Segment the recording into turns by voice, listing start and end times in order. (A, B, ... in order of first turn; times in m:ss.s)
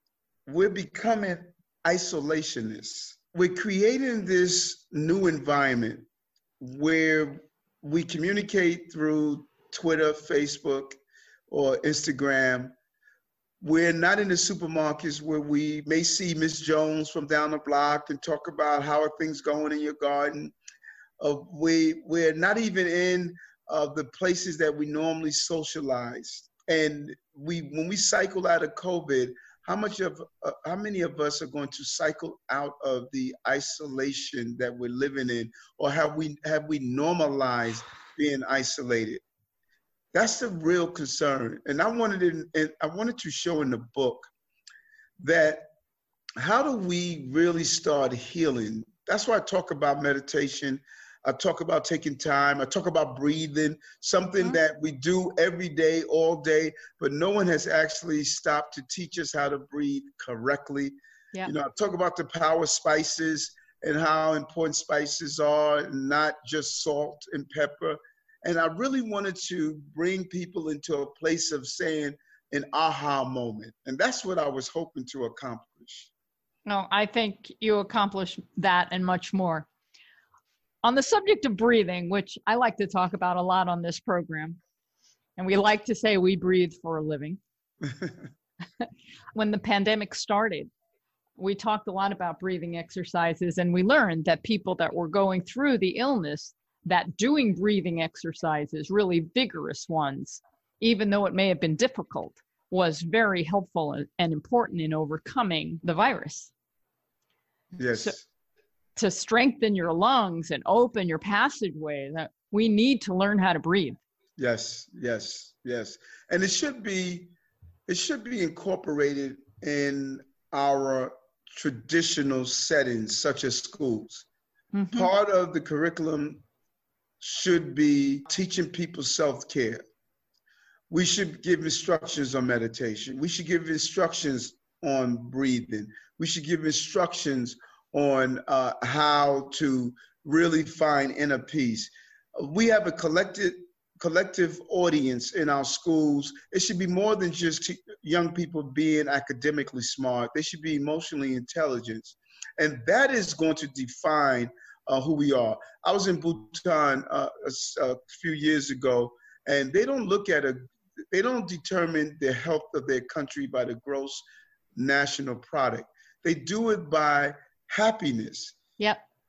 0:00.5-0:06.1 A
0:06.6-0:11.0 A
0:11.5-0:12.7 A
0:13.6-0:20.5 A
0:21.2-0:39.2 A
0:40.1-0:44.3 A
0:45.2-0:45.7 A
0:46.4-1:16.1 A
1:16.7-1:19.7 B
1:20.8-1:24.6 B
1:25.4-1:27.4 B
1:29.4-1:30.7 B
1:31.4-1:46.5 B
1:47.8-1:48.2 A
1:49.0-1:54.0 B
1:54.4-1:57.3 A
1:57.9-2:04.3 A
2:04.7-2:05.1 B
2:04.9-2:06.4 A
2:07.2-2:09.8 A
2:10.9-2:44.2 A
2:44.8-2:48.6 A